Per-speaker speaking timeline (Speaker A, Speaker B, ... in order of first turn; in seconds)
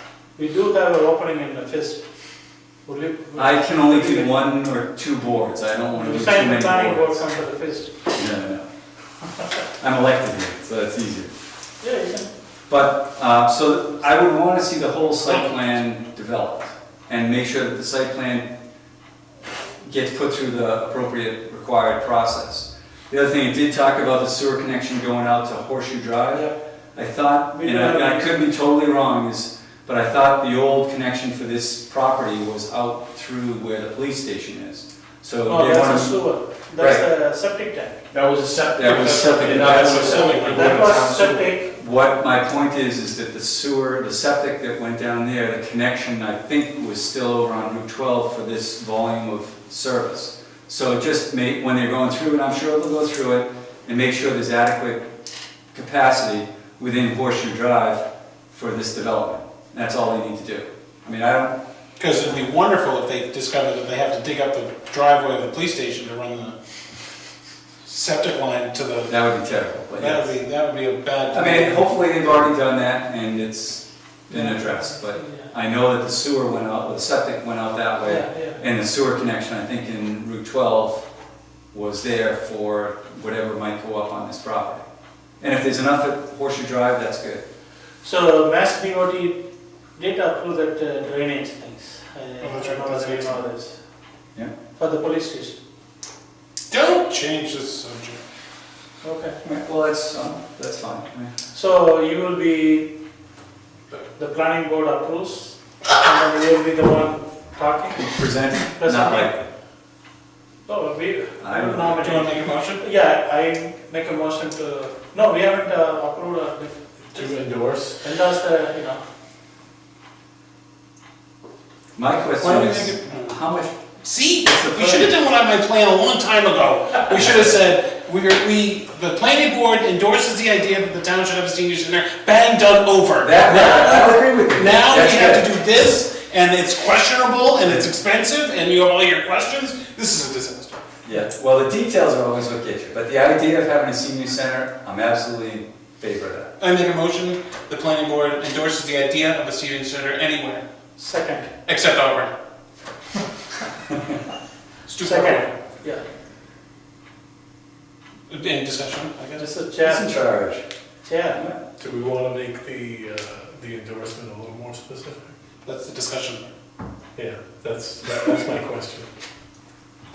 Speaker A: 0.4-2.0, 2.9-4.3, 6.0-8.0, 11.8-12.3, 27.5-28.4, 35.5-38.1, 39.7-41.7, 74.3-75.5, 78.0-78.6, 88.0-89.4, 90.0-93.8, 94.8-95.6, 99.0-99.4, 101.5-102.9, 104.2-108.1, 108.8-109.4, 110.7-117.3, 118.0-119.0, 151.0-151.5, 155.0-156.0, 159.4-160.1, 161.1-161.4
Speaker B: 3.4-7.2, 8.1-8.7, 9.8-11.3, 12.7-18.5, 19.8-36.1, 36.8-37.0, 38.8-55.0, 55.7-61.5, 69.1-70.3, 71.3-81.1, 81.7-84.8, 85.4-87.4, 99.4-101.3, 108.0-109.5, 111.4-112.0, 122.0-123.8, 124.5-125.1, 127.1-127.6, 133.2-135.4, 141.1-146.5, 159.8-160.7
Speaker C: 38.1-41.4, 62.0-66.6, 67.8-69.2, 70.0-71.9, 92.4-93.4, 96.7-98.2, 112.0-112.8, 122.4-123.4, 124.0-140.8, 146.6-150.7, 151.7-152.3, 154.9-155.5, 158.3-159.5, 165.6-166.5
Speaker D: 117.1-118.0, 161.8-165.3, 167.2-169.1